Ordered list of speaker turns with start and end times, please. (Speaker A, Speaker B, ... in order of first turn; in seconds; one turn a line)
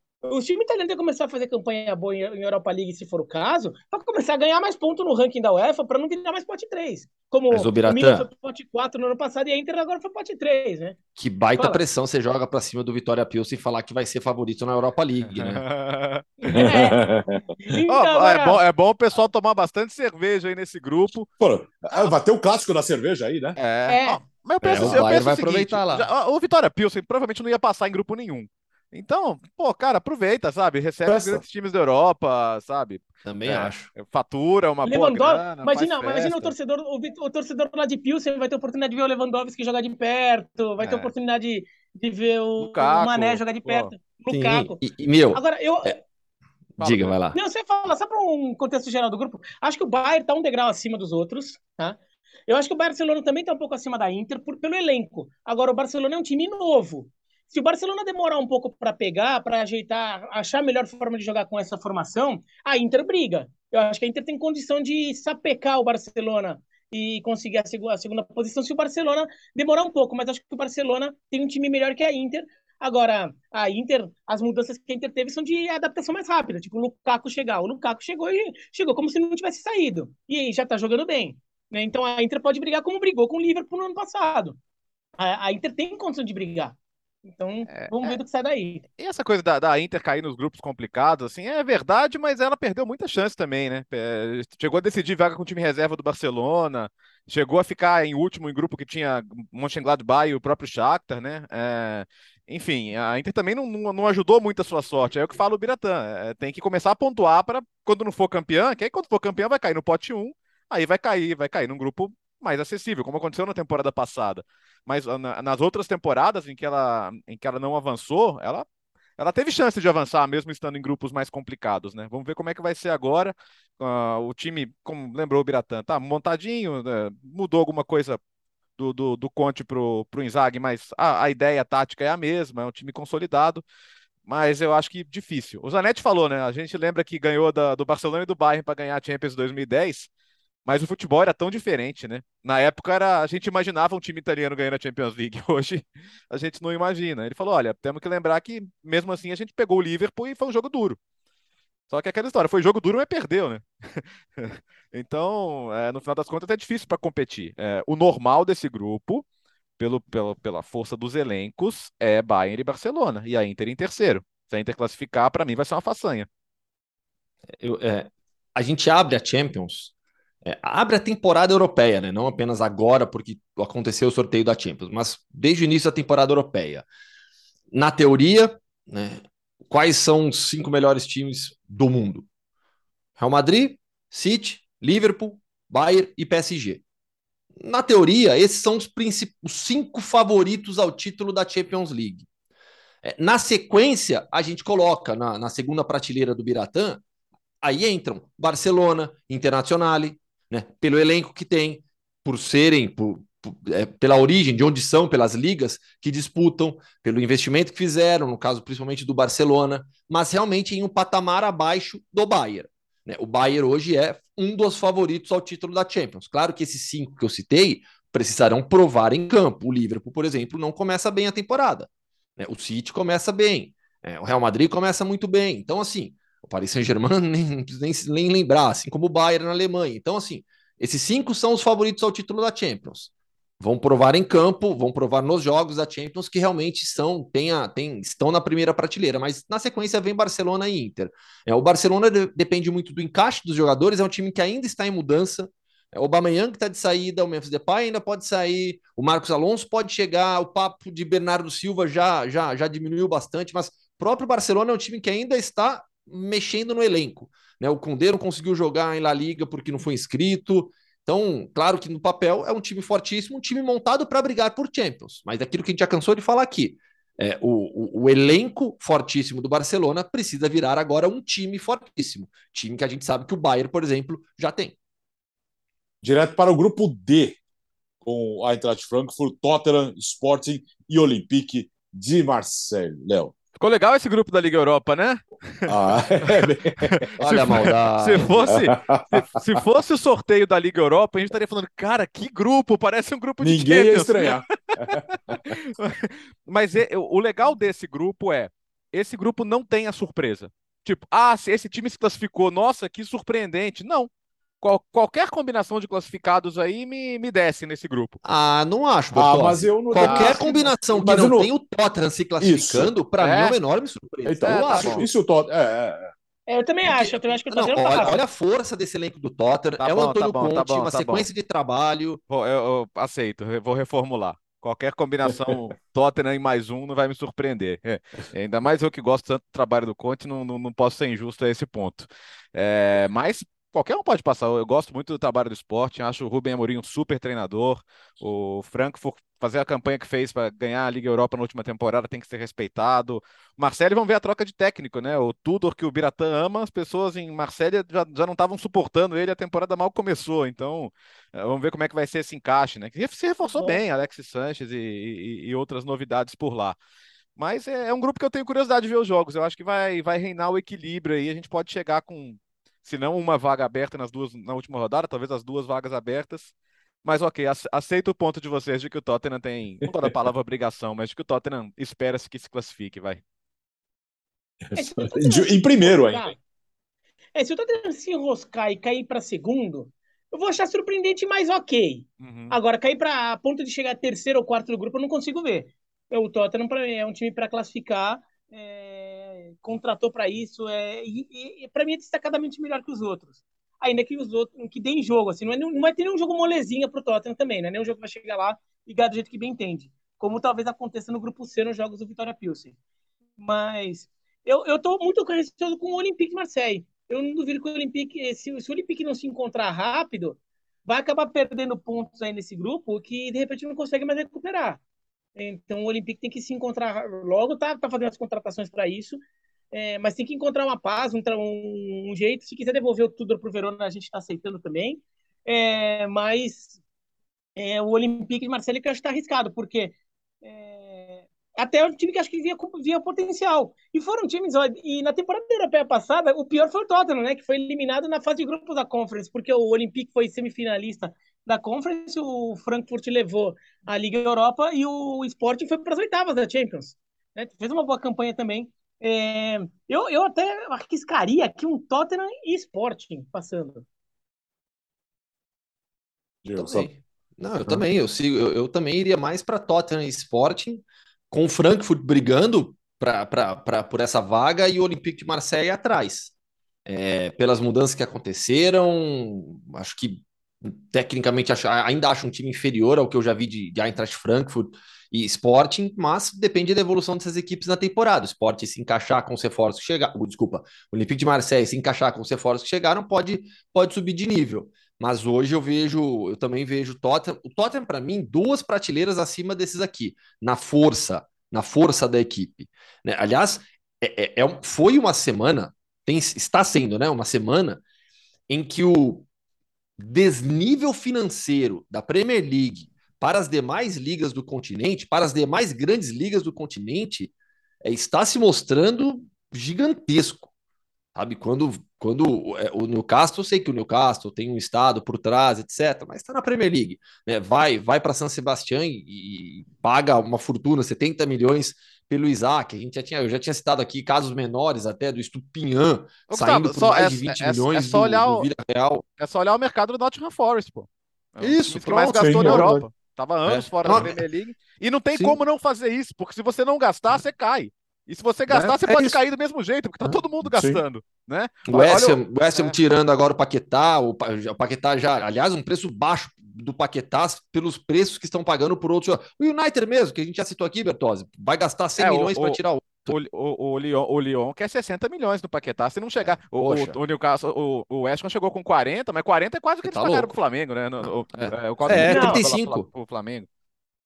Speaker A: 0.2-11.0
Speaker B: 7.5-8.3
Speaker B: 11.2-15.6
Speaker A: 11.6-11.8
Speaker C: 15.3-16.3
Speaker A: 16.4-17.0
Speaker D: 16.5-17.5
Speaker A: 17.6-18.6
Speaker C: 17.9-21.3
Speaker D: 21.4-23.6
Speaker C: 23.6-36.5
Speaker A: 23.9-24.2
Speaker B: 24.6-26.1
Speaker D: 24.7-25.1
Speaker D: 31.1-31.4
Speaker B: 33.2-33.9
Speaker A: 34.8-44.8
Speaker C: 40.8-41.1
Speaker C: 42.6-43.9
Speaker B: 44.3-46.0
Speaker A: 45.3-46.0
Speaker C: 46.8-47.1
Speaker B: 46.8-47.4
Speaker A: 47.3-84.6
Speaker A: 85.2-88.8
Speaker C: 87.7-88.2
Speaker C: 89.0-118.7
Speaker C: 119.2-128.2
Speaker C: 128.8-133.6
Speaker C: 134.3-140.1
Speaker C: 140.6-151.0
Speaker C: 151.9-159.2
Speaker C: 159.8-166.3
Speaker B: 167.6-169.9
Speaker B: 170.4-176.8
Speaker B: 177.7-182.2
Speaker B: 183.2-186.8
Speaker B: 187.6-192.2
Speaker B: 193.0-197.0
Speaker B: 197.6-274.7
Speaker D: 276.0-277.4
Speaker D: 278.0-283.3
Speaker C: 283.6-304.1
Speaker D: 285.7-287.7
Speaker B: 287.2-288.5
Speaker D: 288.4-289.6
Speaker D: 293.4-295.6
Speaker C: 304.6-308.2
Speaker B: 308.2-315.1
Speaker D: 309.1-311.5
Speaker C: 310.0-310.4
Speaker D: 312.4-312.9
Speaker C: 313.2-313.6
Speaker D: 314.2-316.1
Speaker C: 314.4-315.1
Speaker A: 316.5-318.2
Speaker B: 316.9-322.2
Speaker C: 319.8-321.3
Speaker C: 322.3-356.8
Speaker C: 357.4-366.5
Speaker C: 367.0-373.2
Speaker D: 369.9-370.1
Speaker D: 374.7-376.3
Speaker A: 374.7-376.4
Speaker A: 377.3-402.7
Speaker C: 382.2-382.6
Speaker A: 403.4-414.8
Speaker A: 415.4-419.2
Speaker A: 419.7-426.8
Speaker A: 427.6-453.8
Speaker D: 456.4-456.9
Speaker B: 456.6-466.3
Speaker B: 466.9-497.8
Speaker B: 498.5-499.2
Speaker B: 500.0-507.3
Speaker B: 507.8-510.5
Speaker B: 511.1-529.0
Speaker C: 526.3-528.5
Speaker C: 529.2-542.8
Speaker B: 531.4-532.9
Speaker D: 532.1-532.9
Speaker B: 533.5-534.2
Speaker B: 538.5-539.2
Speaker D: 540.4-540.8
Speaker B: 541.7-553.2
Speaker C: 552.0-563.5
Speaker B: 556.2-557.0
Speaker B: 559.8-560.4
Speaker B: 561.0-562.9
Speaker A: 562.0-562.4